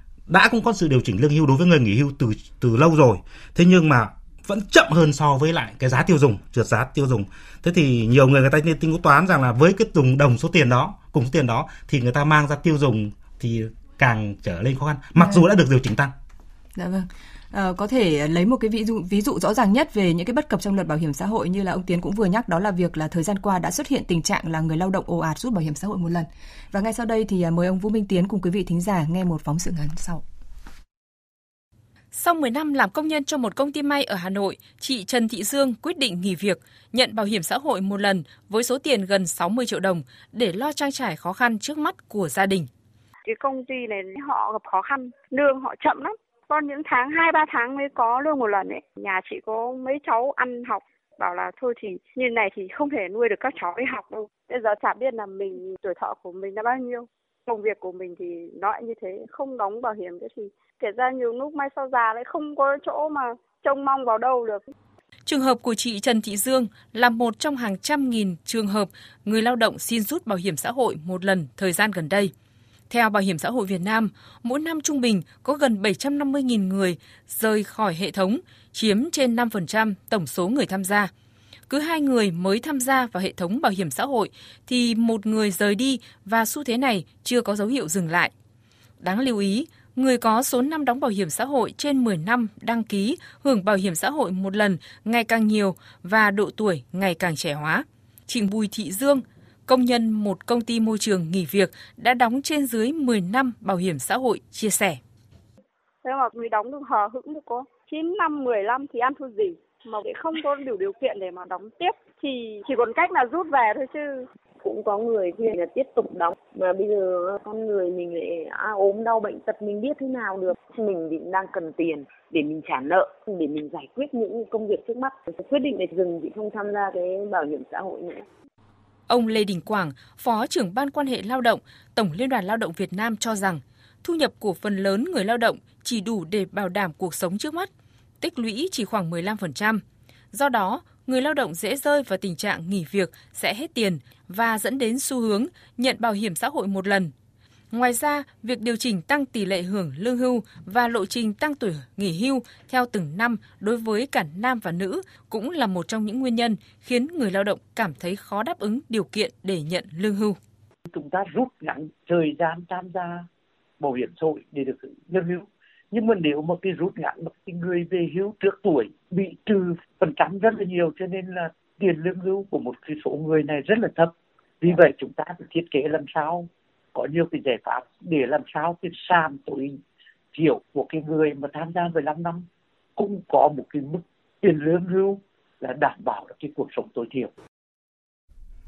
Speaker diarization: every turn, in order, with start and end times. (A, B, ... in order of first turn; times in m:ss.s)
0:00.3-0:16.1 A
0:16.8-0:30.2 B
0:32.1-0:42.7 C
0:43.2-1:04.7 D
1:05.2-1:12.3 C
1:12.9-1:21.1 C
1:21.7-1:28.3 C
1:29.0-1:45.0 C
1:46.0-1:54.2 D
1:54.6-2:08.2 E
2:09.1-2:17.7 C
2:18.2-2:27.1 C
2:27.7-2:40.4 C
2:40.9-2:43.3 F
2:43.8-2:59.8 F
3:00.3-3:07.3 F